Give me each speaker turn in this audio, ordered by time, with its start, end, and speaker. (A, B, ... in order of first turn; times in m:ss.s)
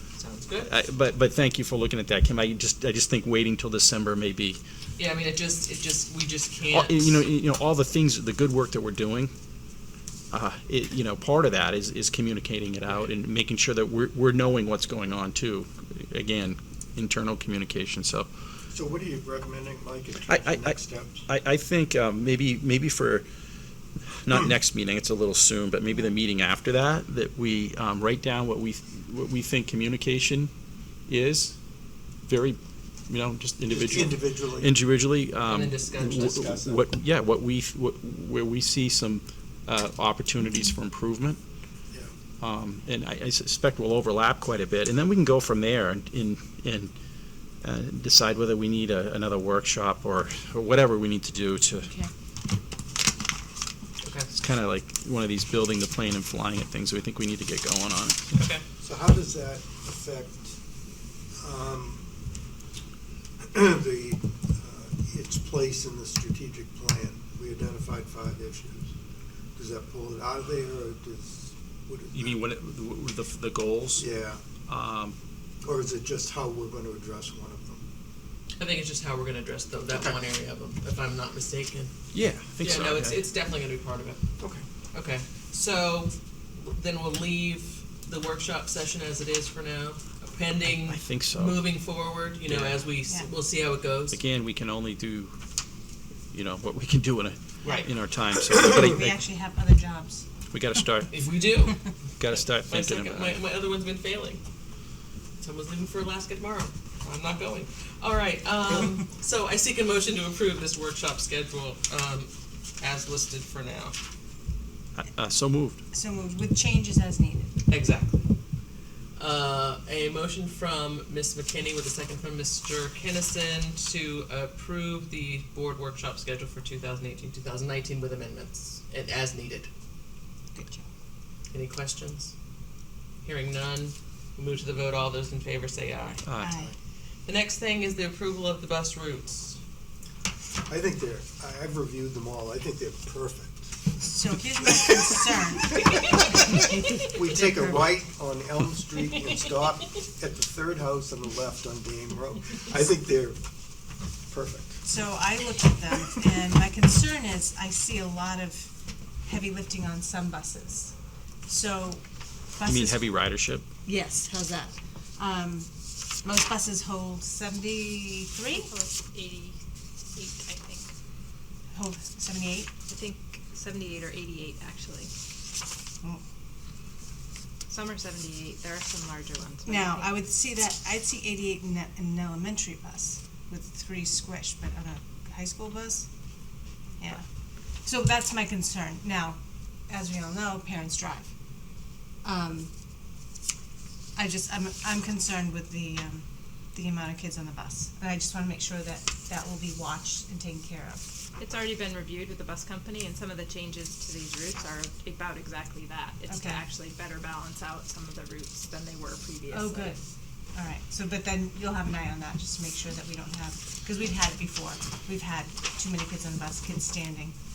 0:00.2-0:00.7 A
0:00.6-0:04.6 B
0:05.0-0:07.2 A
0:06.7-0:09.3 B
0:10.3-0:18.3 B
0:18.7-0:21.3 C
0:20.3-0:23.3 B
0:24.2-0:30.5 B
0:31.1-0:31.6 B
0:32.3-0:41.4 B
0:33.7-0:34.8 C
0:35.4-0:36.3 A
0:36.2-0:36.9 C
0:42.4-0:46.9 B
0:47.6-0:51.9 B
0:54.0-0:54.3 A
0:54.3-0:58.3 B
0:58.3-0:58.6 A
0:58.8-1:00.6 C
1:01.4-1:02.0 C
1:03.5-1:08.9 C
1:09.6-1:12.4 C
1:12.1-1:14.1 B
1:14.0-1:14.4 C
1:14.7-1:15.2 B
1:15.6-1:17.8 C
1:18.6-1:21.9 A
1:19.9-1:20.2 C
1:22.1-1:23.2 B
1:22.6-1:24.2 A
1:24.9-1:34.2 A
1:30.8-1:31.6 B
1:32.4-1:32.8 B
1:34.1-1:35.3 B
1:36.3-1:39.2 B
1:37.6-1:37.9 A
1:38.8-1:40.2 D
1:40.5-1:41.1 B
1:41.1-1:41.8 A
1:42.2-1:43.4 B
1:42.3-1:44.4 A
1:45.4-1:54.0 A
1:54.9-1:55.8 B
1:55.9-1:57.6 D
1:57.7-1:58.3 A
1:59.2-2:09.7 A
2:10.5-2:10.8 D
2:11.5-2:12.3 A
2:13.2-2:16.2 A
2:16.2-2:16.6 B
2:16.4-2:16.7 D
2:17.2-2:19.6 A
2:20.7-2:23.8 C
2:24.0-2:25.8 D
2:27.1-2:33.4 C
2:34.3-2:34.8 C
2:34.8-2:38.7 D
2:39.2-2:40.9 D
2:41.5-2:42.0 D
2:42.5-2:43.1 D
2:42.7-2:43.7 B
2:43.8-2:45.7 D
2:46.2-2:48.7 D
2:48.6-2:49.6 E
2:50.2-2:50.9 E
2:51.7-2:52.8 D
2:52.9-2:55.1 E
2:57.7-3:00.2 E
2:59.7-3:06.1 D
3:07.8-3:11.3 D
3:12.2-3:12.7 D
3:14.2-3:21.0 D
3:21.4-3:30.0 E
3:26.3-3:26.6 D
3:29.5-3:30.0 D
3:30.5-3:37.4 D